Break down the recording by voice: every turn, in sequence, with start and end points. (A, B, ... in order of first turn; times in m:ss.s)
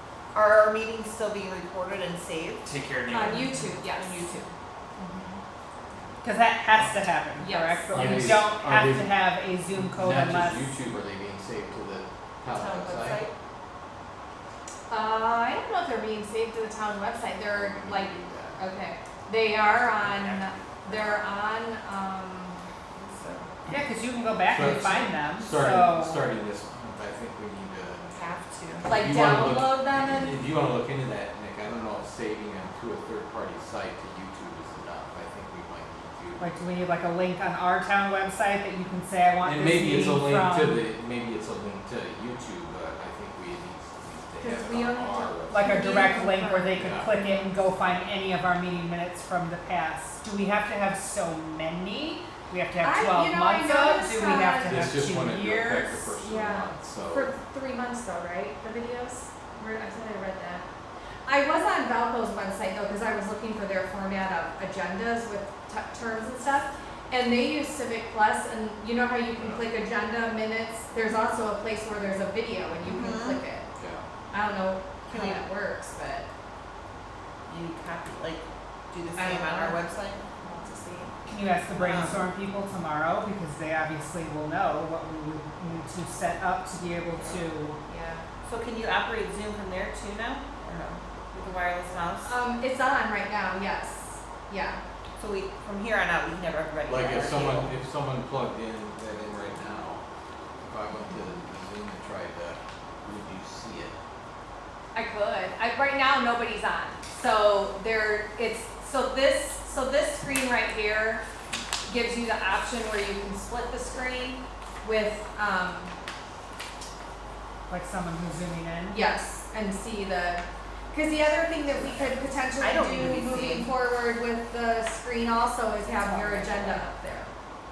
0:00.3-0:02.7 A
0:02.6-0:04.1 B
0:03.1-0:04.3 C
0:03.9-0:04.5 A
0:05.0-0:05.4 C
0:06.2-0:10.7 D
0:07.4-0:08.3 C
0:07.9-0:09.2 E
0:09.7-0:13.3 E
0:12.5-0:13.3 A
0:14.9-0:22.6 C
0:17.5-0:18.6 E
0:19.5-0:21.2 B
0:22.9-0:23.5 A
0:23.7-0:26.3 D
0:24.5-0:28.2 E
0:28.1-0:28.9 A
0:28.8-0:36.5 E
0:28.8-0:30.4 C
0:36.4-0:40.8 D
0:39.4-0:45.7 E
0:44.4-0:47.5 C
0:45.5-0:56.1 D
0:46.7-0:47.1 E
0:52.8-0:54.9 C
0:54.6-0:57.3 E
0:56.2-1:00.6 C
1:01.2-1:13.7 C
1:09.4-1:09.6 E
1:12.8-1:13.4 A
1:13.8-1:14.0 E
1:14.3-1:16.3 C
1:15.1-1:15.5 A
1:17.5-1:20.2 A
1:19.2-1:21.1 C
1:21.3-1:27.8 D
1:21.8-1:22.2 A
1:27.9-1:28.2 C
1:28.4-1:32.4 A
1:32.2-1:34.8 C
1:35.2-1:37.7 A
1:36.9-1:40.0 E
1:40.6-1:43.9 E
1:44.9-1:51.2 C
1:51.9-1:55.9 C
1:57.7-1:59.0 D
1:58.9-2:07.3 C
2:02.6-2:03.7 A
2:06.0-2:06.8 D